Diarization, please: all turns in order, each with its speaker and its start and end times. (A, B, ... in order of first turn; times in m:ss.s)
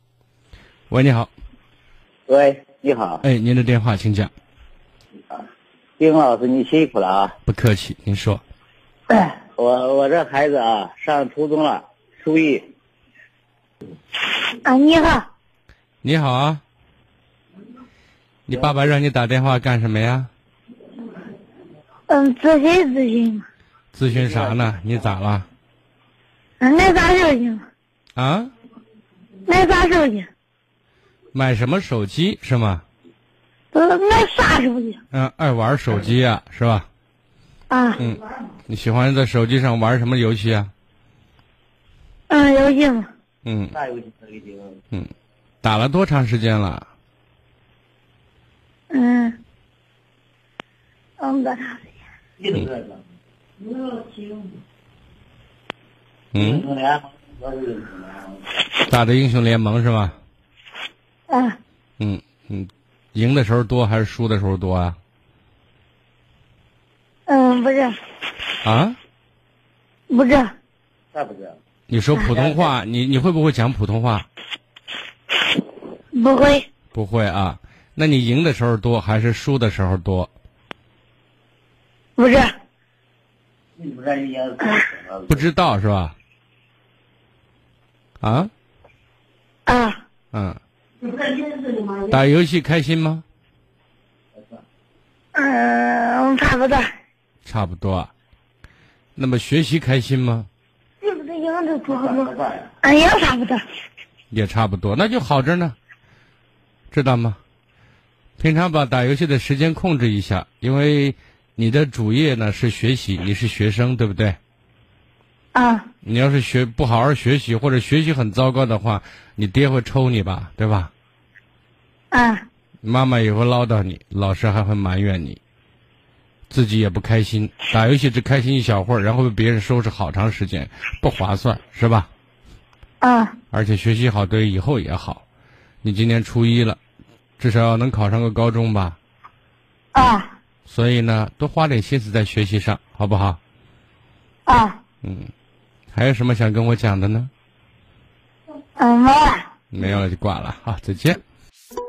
0:00.9-0:01.3 A
0:02.3-0:03.2 B
0:03.2-0:04.3 A
0:06.0-0:07.4 B
0:07.5-0:08.4 A
0:09.6-0:12.6 B
0:14.6-0:15.3 C
0:16.0-0:16.6 A
0:18.5-0:20.3 A
0:22.1-0:23.4 C
0:23.9-0:25.5 A
0:24.1-0:24.7 B
0:26.6-0:27.6 C
0:28.2-0:28.5 A
0:29.4-0:30.3 C
0:31.3-0:32.8 A
0:33.7-0:35.0 C
0:35.1-0:36.9 A
0:37.7-0:38.0 C
0:38.0-0:40.7 A
0:42.3-0:43.1 C
0:43.4-0:43.7 A
0:43.7-0:44.8 B
0:45.6-0:46.9 A
0:48.9-0:49.4 C
0:51.2-0:51.8 C
0:52.4-0:53.0 B
0:53.7-0:54.4 B
0:56.3-0:56.6 A
0:56.3-0:58.4 B
0:58.8-1:00.1 A
1:01.3-1:01.6 C
1:02.0-1:05.0 A
1:07.3-1:08.0 C
1:08.6-1:09.0 A
1:10.1-1:10.5 C
1:11.1-1:11.6 B
1:11.9-1:14.2 A
1:12.4-1:12.7 B
1:16.1-1:16.7 C
1:16.9-1:20.3 A
1:22.2-1:22.5 C
1:23.8-1:25.4 B
1:25.3-1:26.1 A
1:28.2-1:28.5 A
1:29.7-1:30.0 C
1:30.3-1:30.6 A
1:32.1-1:33.2 A
1:35.3-1:36.8 C
1:37.4-1:38.1 A
1:39.2-1:40.5 A
1:41.0-1:43.6 C
1:41.9-1:42.7 B
1:44.3-1:45.7 A
1:46.9-1:47.4 A
1:48.4-1:54.4 A
1:55.5-1:55.9 C
1:56.0-2:00.9 A
2:02.1-2:02.4 C
2:02.8-2:05.4 A
2:06.5-2:12.1 A
2:13.0-2:13.3 C
2:13.5-2:15.2 A
2:15.8-2:16.8 A
2:17.4-2:19.0 A
2:19.9-2:20.3 C
2:20.7-2:23.4 A
2:24.5-2:24.8 C
2:25.0-2:25.3 A
2:25.9-2:27.3 A
2:28.8-2:29.5 C
2:29.7-2:31.2 A